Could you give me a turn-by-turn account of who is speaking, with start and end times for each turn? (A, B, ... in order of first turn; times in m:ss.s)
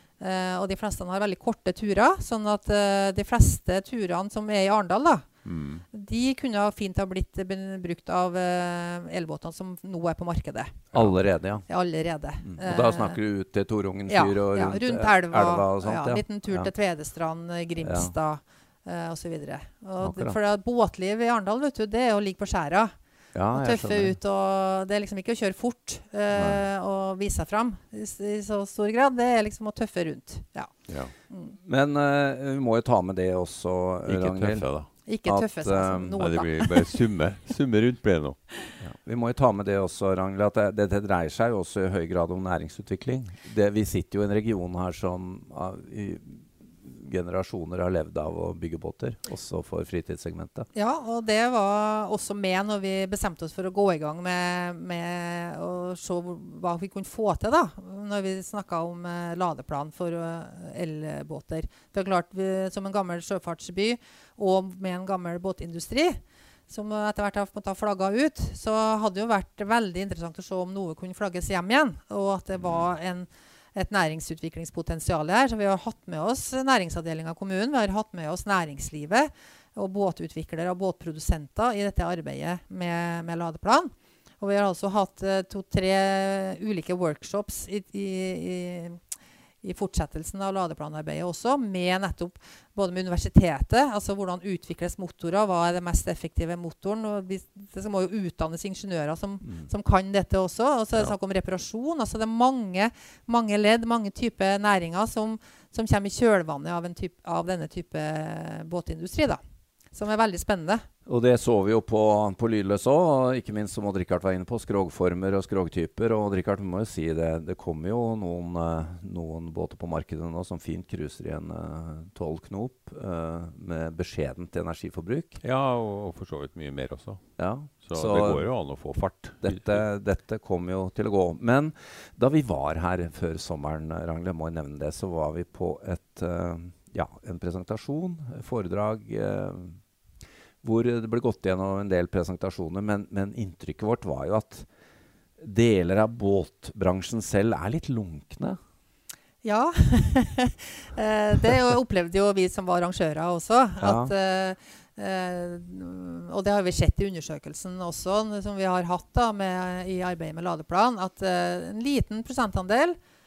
0:00.2-0:05.2 A
0:05.4-0:05.8 B
0:05.9-0:10.9 A
0:10.9-0:11.7 C
0:11.7-0:13.2 A
0:12.4-0:16.7 C
0:14.1-0:22.9 A
0:17.8-0:18.1 C
0:20.0-0:20.4 C
0:23.3-0:24.2 C
0:23.5-0:30.7 A
0:26.3-0:26.6 C
0:31.3-0:31.5 A
0:31.6-0:34.6 C
0:34.0-0:34.9 B
0:35.0-0:36.9 A
0:35.2-0:36.2 C
0:36.2-0:38.4 B
0:38.8-0:50.7 C
0:50.7-1:29.0 A
1:29.6-1:49.4 A
1:49.9-1:50.8 A
1:51.0-2:05.4 C
2:05.4-2:07.2 B
2:07.4-2:08.5 C
2:07.8-2:09.8 B
2:09.4-2:19.8 C
2:20.6-2:24.7 C
2:25.4-2:28.6 C
2:29.4-2:43.0 A
2:33.8-2:34.1 C